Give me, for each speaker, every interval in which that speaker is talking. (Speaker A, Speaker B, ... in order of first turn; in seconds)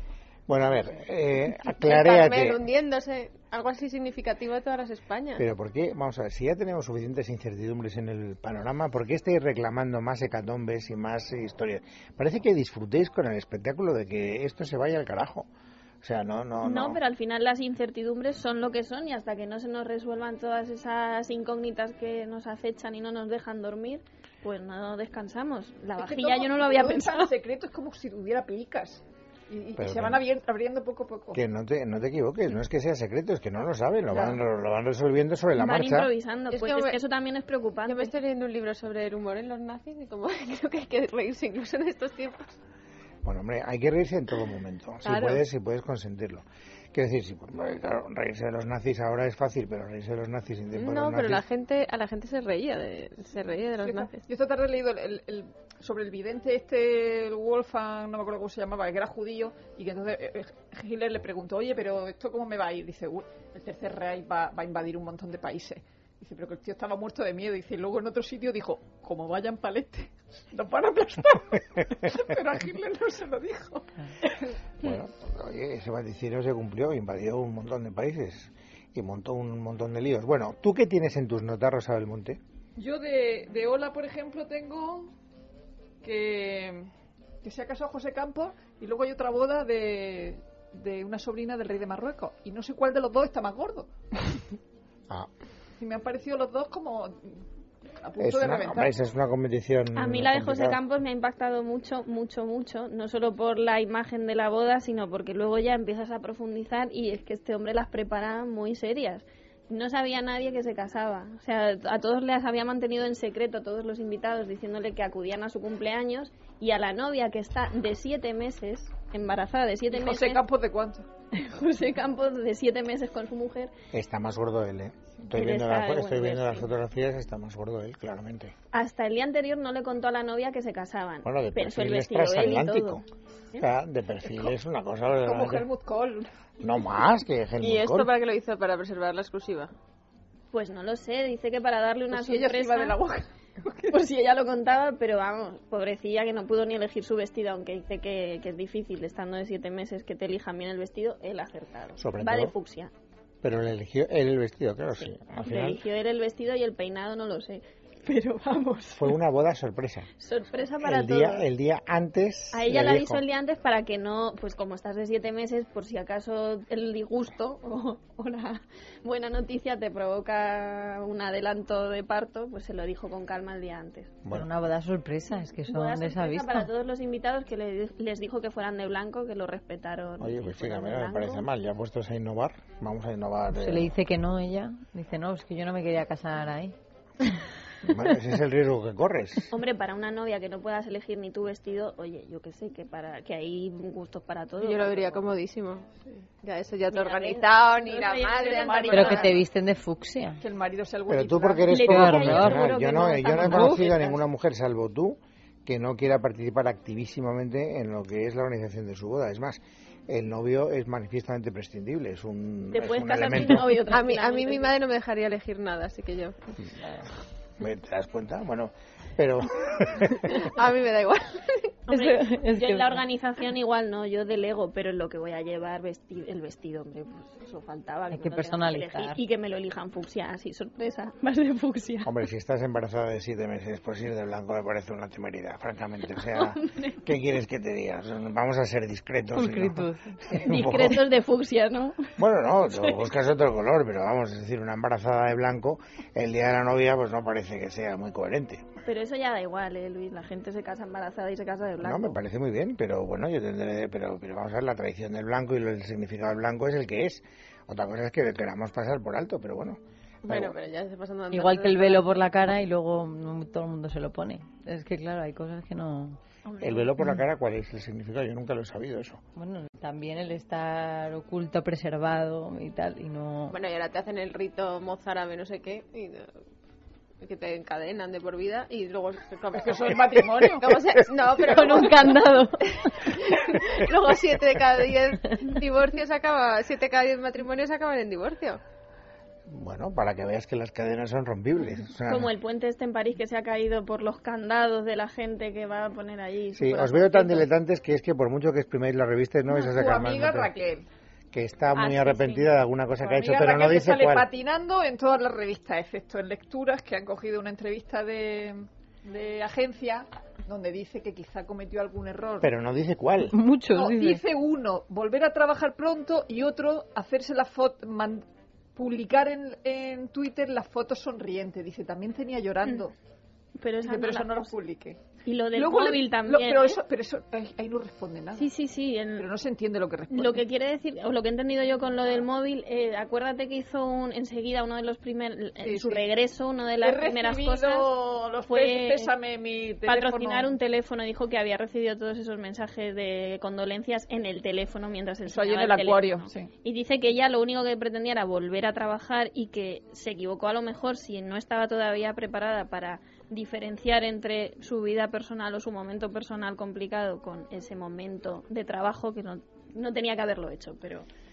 Speaker A: 0.5-2.6, 5.4-15.5, 16.0-17.0, 29.8-30.2, 31.3-36.1, 43.2-51.4, 74.8-82.4, 98.2-100.8, 123.9-128.5, 131.2-133.0, 133.6-135.7, 136.6-138.1, 152.0-152.5, 153.4-155.8, 158.9-160.1, 160.8-163.2, 180.2-183.9, 187.8-189.5, 201.1-213.8, 217.6-220.5, 232.0-241.0, 242.2-248.7, 251.8-260.6, 266.6-269.2, 289.5-292.3, 296.5-300.5, 301.3-304.3, 312.4-313.4
Speaker B: 1.7-5.5, 36.5-37.0, 37.9-42.5, 45.0-45.4, 50.7-54.2, 137.6-139.7, 194.6-195.9, 196.4-199.4, 213.9-216.4, 220.3-221.8, 260.2-262.1, 273.5-276.3, 277.2-288.6
Speaker C: 16.6-27.3, 35.5-38.1, 99.9-120.4, 121.3-123.7, 125.3-126.7, 128.7-133.0, 140.5-143.0, 143.9-152.9, 155.0-159.1, 160.2-161.4, 162.5-174.2, 175.6-181.4, 189.5-195.3, 196.9-199.3, 201.7-204.1, 212.7-214.7, 221.9-232.1, 236.4-236.9, 240.4-242.1, 248.8-252.2, 266.5-266.8, 292.1-297.5, 301.7-302.5, 323.6-324.5, 325.2-326.8, 328.4-329.3, 330.1-337.9, 338.5-339.1, 339.9-361.1
Speaker D: 26.0-31.4, 53.8-74.5, 82.8-85.1, 86.0-86.9, 87.4-93.9, 95.8-97.4, 98.0-98.9, 119.9-121.1, 135.2-136.3, 142.1-144.0, 197.8-199.4, 200.4-201.8, 279.6-280.7, 299.5-300.9, 303.0-312.5, 313.7-318.2, 318.8-322.9, 323.8-325.0, 325.5-328.4, 329.2-330.4, 335.6-336.0, 336.8-340.5, 345.2-346.5
Speaker E: 174.3-176.7, 183.5-186.7, 198.9-200.4, 201.7-202.7, 203.3-203.8, 221.9-223.0, 228.1-229.2, 239.3-240.9, 261.3-266.2, 269.4-273.6, 281.4-282.9, 313.3-314.2